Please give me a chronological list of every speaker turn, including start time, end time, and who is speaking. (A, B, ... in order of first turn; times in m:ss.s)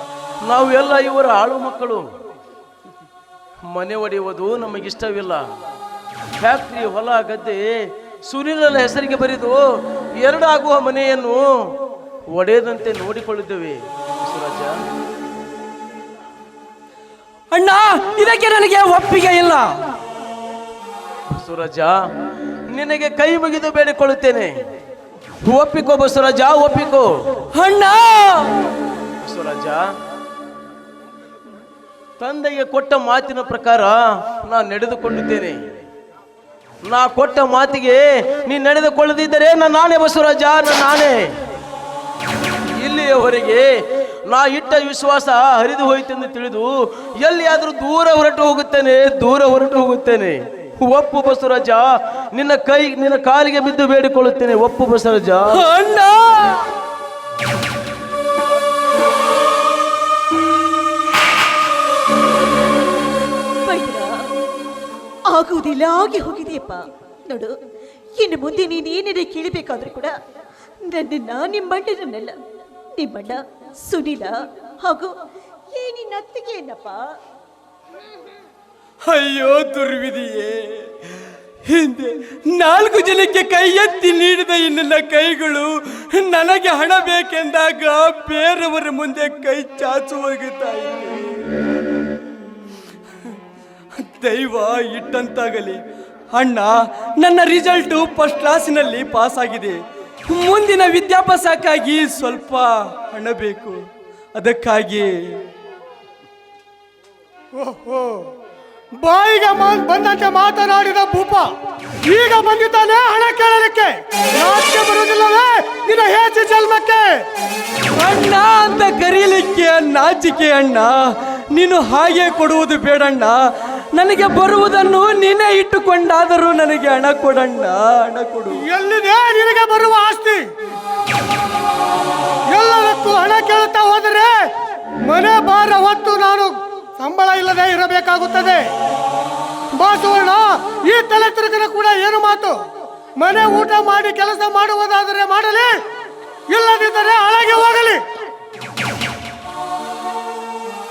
0:00.4-0:02.0 A
0:03.6-0:05.4 A
0:06.4-0:09.6 A
0:10.2-0:11.7 A
0:12.3-0:14.8 A
0:17.5-0:19.6 B
0:21.3-0:22.0 A
0:22.7-0:24.6 A
0:25.4-0:27.1 A
0:27.5-0:28.5 B
0:29.2-0:29.9 A
0:32.2-0:35.6 A
0:36.8-0:41.3 A
0:42.8-0:43.7 A
0:44.3-0:55.6 A
0:55.5-0:56.7 B
1:03.6-1:04.1 C
1:05.3-1:07.5 C
1:08.2-1:10.1 C
1:10.8-1:12.4 C
1:13.0-1:15.1 C
1:15.7-1:17.0 C
1:19.1-1:20.9 B
1:21.7-1:31.4 B
1:34.0-1:35.8 B
1:36.3-1:39.8 B
1:40.3-1:43.8 B
1:44.4-1:45.1 B
1:47.6-1:48.2 D
1:49.0-1:51.5 D
1:52.1-1:57.1 D
1:58.0-2:00.9 B
2:01.5-2:03.4 B
2:03.9-2:08.6 B
2:08.6-2:10.4 D
2:12.5-2:14.4 D
2:15.1-2:18.6 D
2:19.8-2:22.6 D
2:23.2-2:25.7 D
2:26.5-2:28.0 D